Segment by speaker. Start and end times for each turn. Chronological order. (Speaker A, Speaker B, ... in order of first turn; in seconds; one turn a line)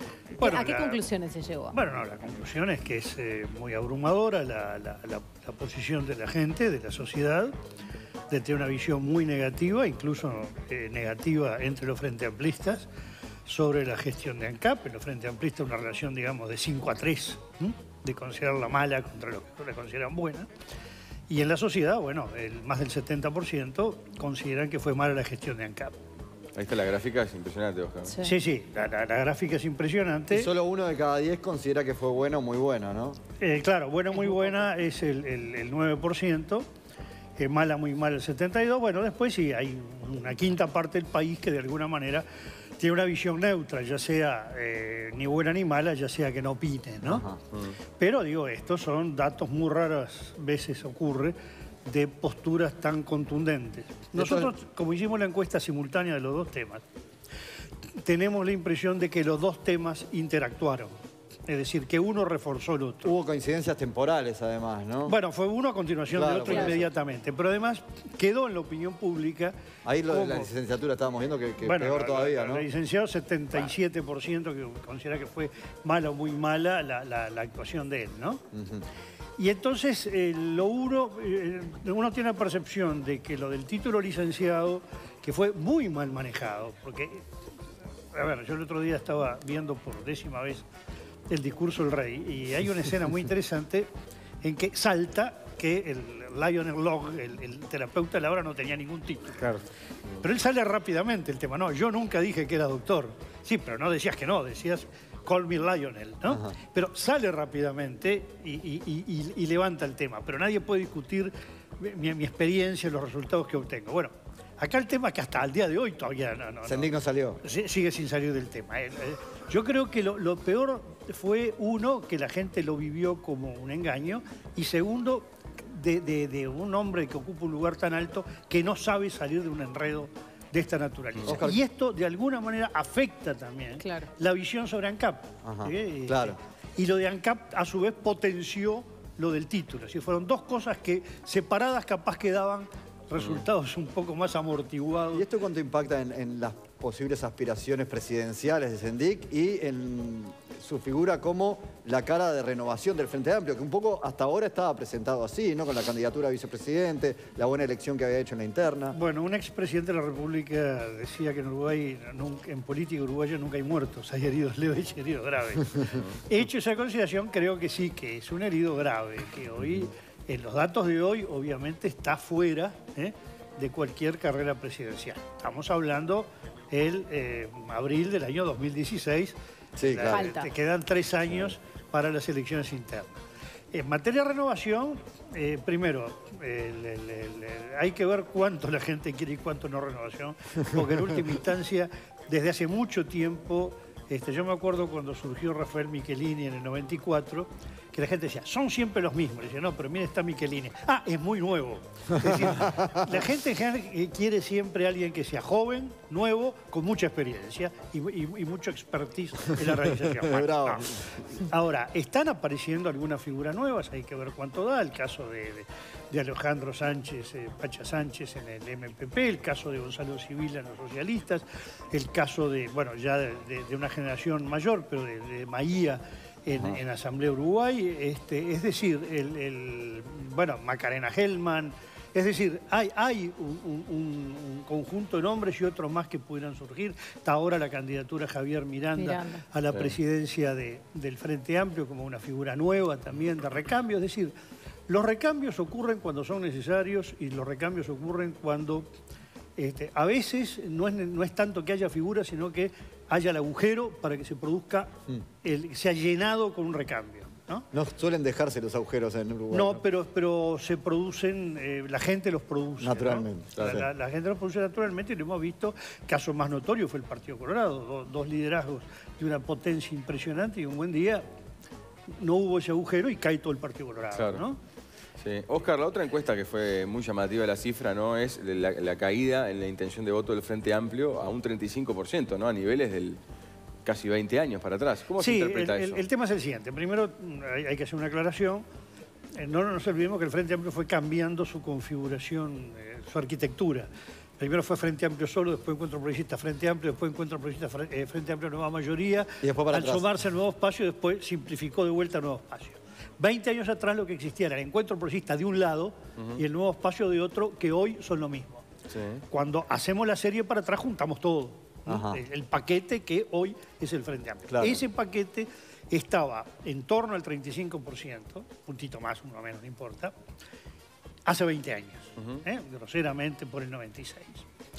Speaker A: 0.4-1.0
Speaker B: 0.5-1.7
Speaker A: 1.7-7.5
Speaker A: 8.3-12.9
Speaker A: 13.4-20.5
Speaker A: 21.3-25.9
Speaker C: 26.5-28.2
Speaker A: 28.2-30.5
Speaker D: 30.3-33.2
Speaker A: 33.4-36.7
Speaker A: 37.4-42.3
Speaker A: 42.8-47.2
Speaker D: 47.0-47.4
Speaker A: 48.0-56.8
Speaker D: 54.1-54.5
Speaker A: 58.0-60.9
Speaker A: 61.5-63.1
Speaker D: 63.0-65.1
Speaker A: 65.0-70.5
Speaker D: 66.1-66.9
Speaker D: 69.8-72.7
Speaker A: 71.6-78.4
Speaker D: 78.5-78.8
Speaker A: 79.4-87.2
Speaker A: 88.1-90.6
Speaker A: 91.3-93.9
Speaker A: 94.4-99.5
Speaker A: 100.2-145.2
Speaker D: 116.7-117.4
Speaker D: 131.2-131.6
Speaker D: 135.4-136.4
Speaker D: 145.1-159.0
Speaker A: 158.9-183.2
Speaker D: 179.8-180.2
Speaker B: 180.1-180.4
Speaker A: 183.7-244.3
Speaker D: 202.2-203.2
Speaker D: 210.1-211.2
Speaker B: 239.0-239.4
Speaker A: 244.9-248.9
Speaker A: 249.6-254.9
Speaker A: 255.4-257.7
Speaker D: 257.7-259.8
Speaker A: 259.5-271.2
Speaker D: 262.8-263.9
Speaker A: 272.2-274.6
Speaker C: 274.1-274.4
Speaker C: 275.2-283.2
Speaker C: 283.8-286.0
Speaker A: 285.2-288.6
Speaker A: 289.3-308.6
Speaker D: 299.4-300.1
Speaker C: 308.9-309.2
Speaker A: 309.3-320.1
Speaker D: 311.9-312.2
Speaker D: 314.5-314.8
Speaker A: 321.2-324.4